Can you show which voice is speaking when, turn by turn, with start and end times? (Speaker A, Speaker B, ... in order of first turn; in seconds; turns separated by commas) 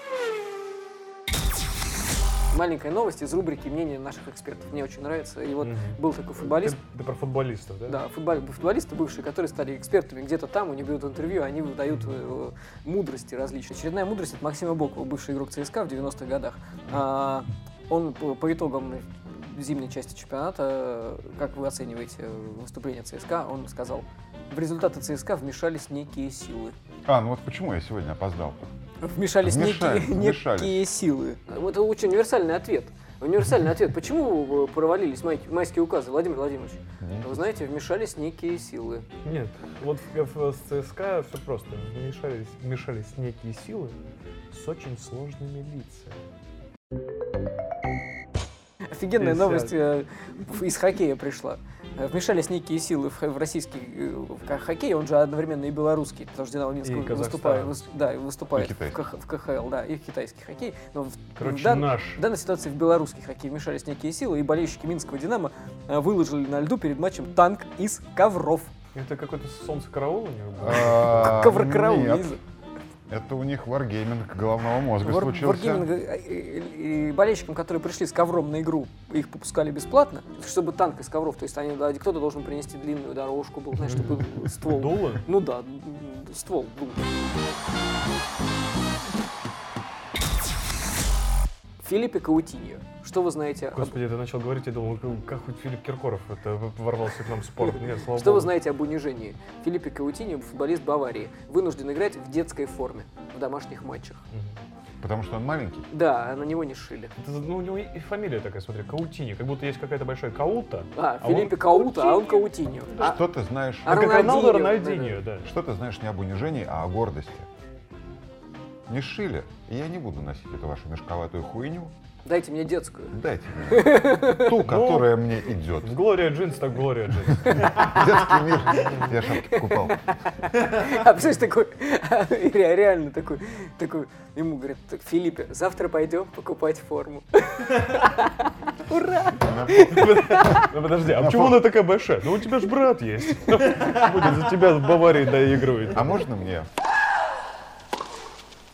Speaker A: 2.5-6.8, Speaker B: 5.6-8.0, Speaker A: 7.9-26.8, Speaker C: 27.1-28.6, Speaker A: 29.0-39.1, Speaker C: 29.4-30.9, Speaker C: 37.0-37.5, Speaker B: 39.2-44.0, Speaker B: 44.5-46.2, Speaker A: 48.9-68.7, Speaker B: 49.2-49.7, Speaker B: 56.8-57.8, Speaker C: 58.5-59.0, Speaker B: 61.4-62.2, Speaker B: 68.9-71.5, Speaker C: 70.6-72.4, Speaker A: 71.2-72.4, Speaker C: 73.1-75.9, Speaker A: 75.0-87.1, Speaker B: 83.8-85.3, Speaker A: 91.8-94.0, Speaker B: 93.7-98.5, Speaker A: 98.2-104.2, Speaker C: 105.0-105.9, Speaker A: 105.9-107.1, Speaker B: 107.2-112.4, Speaker A: 111.0-113.2, Speaker C: 113.0-114.2, Speaker A: 113.9-115.2, Speaker B: 113.9-115.5, Speaker C: 115.4-117.5, Speaker C: 118.9-121.9, Speaker A: 122.2-124.5, Speaker C: 123.1-126.0, Speaker B: 124.6-125.2, Speaker B: 125.8-127.7, Speaker C: 127.5-130.0, Speaker A: 127.7-128.0, Speaker B: 128.6-129.2, Speaker A: 128.8-140.7, Speaker C: 139.4-141.7, Speaker B: 139.9-146.2, Speaker C: 145.9-146.7